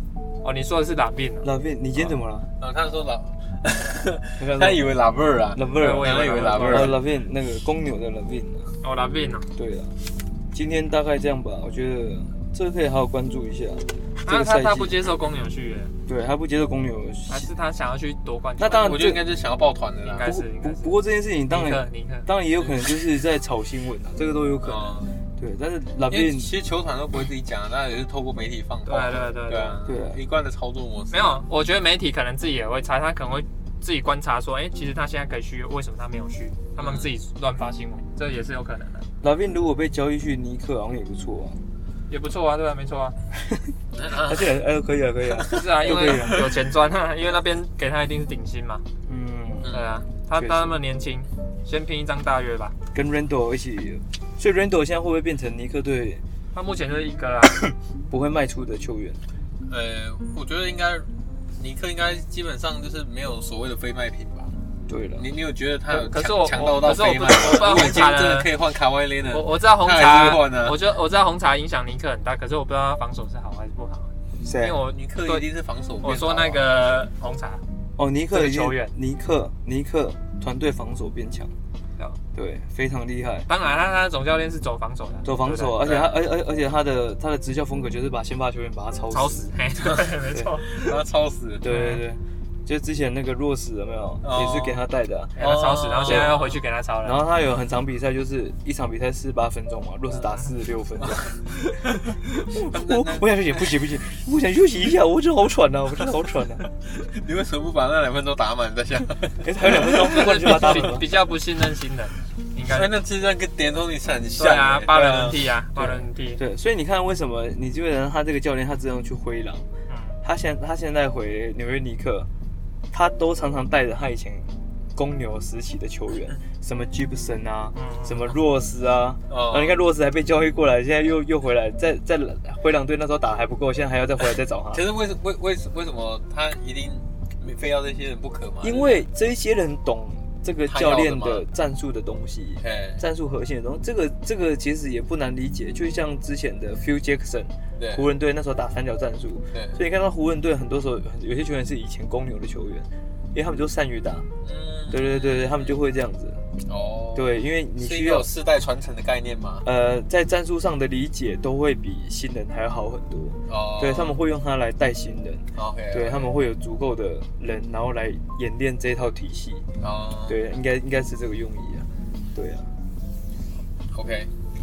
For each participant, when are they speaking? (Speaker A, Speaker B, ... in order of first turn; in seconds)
Speaker A: 0.4-1.5, 5.7-7.0, 8.8-9.5, 14.2-15.9, 17.3-19.2, 20.0-21.0, 21.5-22.3, 28.9-29.8, 31.1-39.0, 42.1-43.1, 45.5-48.8, 49.7-52.7, 56.5-57.7, 65.9-68.5, 69.3-75.4, 76.0-77.6, 78.3-78.9, 83.5-86.0, 89.1-91.0, 91.7-92.0, 95.3-97.2, 109.8-112.9, 114.4-116.4, 119.9-120.2, 127.8-128.3
Speaker B: 1.4-2.5, 4.4-4.9, 5.5-8.7, 9.6-10.0, 10.5-14.9, 16.1-17.5, 18.6-19.2, 20.2-26.5, 29.9-30.2, 39.2-41.6, 43.5-46.4, 49.0-49.7, 50.3-50.8, 52.9-56.2, 58.1-59.2, 64.9-65.3, 74.4-74.8, 78.0-81.5, 82.3-83.5, 85.2-89.5, 91.6-96.4, 97.0-106.6, 109.4-111.1, 115.7-119.7, 120.2-122.3, 122.9-134.9, 138.6-154.3, 154.9-156.4, 157.1-158.3, 159.6-169.7, 170.3-172.7
Speaker C: 2.6-7.0, 18.9-20.3, 22.6-22.9, 24.6-25.1, 26.1-31.4, 36.8-37.1, 44.0-44.5, 45.3-46.5, 59.7-64.5, 65.2-70.8, 74.9-76.7, 85.8-86.1, 89.8-90.2, 90.7-91.7, 94.2-94.8, 95.4-96.6, 101.0-101.3, 102.5-103.6, 107.0-109.5, 112.7-115.5, 129.3-129.8, 134.7-139.1, 140.7-141.5, 142.6-143.0, 147.8-148.1, 149.5-149.8, 154.4-155.8, 156.7-159.7, 163.5-164.2, 165.5-166.3, 169.8-170.4, 173.9-174.3